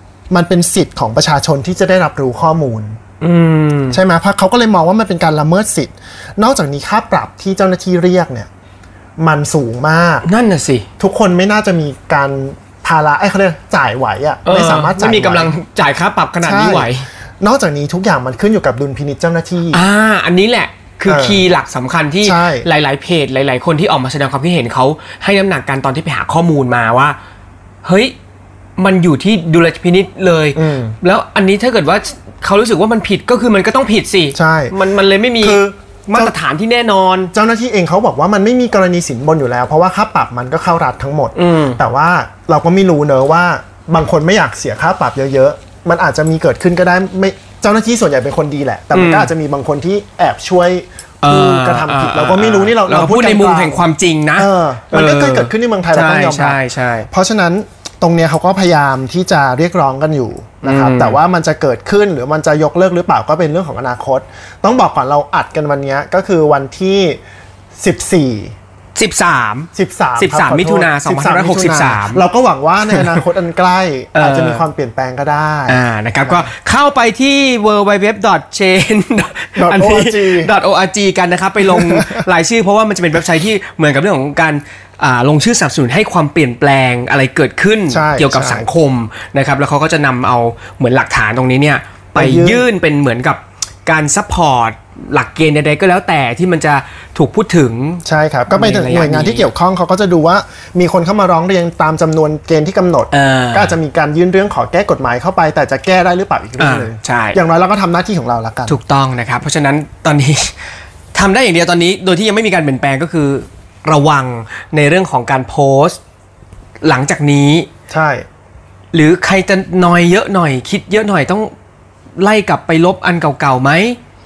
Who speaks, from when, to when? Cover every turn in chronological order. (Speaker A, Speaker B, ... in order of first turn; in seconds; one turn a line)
Speaker A: 0.3-3.0
Speaker B: 3.2-4.0
Speaker A: 3.9-8.5
Speaker A: 9.2-10.2
Speaker B: 10.2-10.9
Speaker A: 11.0-15.5
Speaker B: 14.4-17.1
Speaker A: 16.4-19.9
Speaker B: 19.7-27.2
Speaker A: 21.1-21.5
Speaker A: 22.2-22.7
Speaker B: 27.8-28.1
Speaker B: 28.8-37.3
Speaker A: 30.5-31.0
Speaker A: 34.4-34.8
Speaker A: 35.4-36.4
Speaker A: 37.3-53.8
Speaker B: 41.4-41.8
Speaker B: 48.9-49.3
Speaker B: 51.2-57.1
Speaker A: 54.4-67.2
Speaker B: 60.6-61.2
Speaker A: 67.8-68.5
Speaker B: 69.0-72.2
Speaker A: 69.7-76.5
Speaker B: 72.9-73.2
Speaker B: 74.1-74.7
Speaker B: 75.7-99.5
Speaker A: 79.5-80.5
Speaker A: 81.6-82.2
Speaker A: 87.9-88.7
Speaker A: 92.1-92.7
Speaker A: 98.0-108.8
Speaker B: 103.1-103.8
Speaker B: 106.6-107.4
Speaker B: 108.7-110.5
Speaker B: 111.1-116.0
Speaker B: 116.8-117.7
Speaker A: 117.9-118.2
Speaker B: 118.9-121.5
Speaker B: 122.2-124.0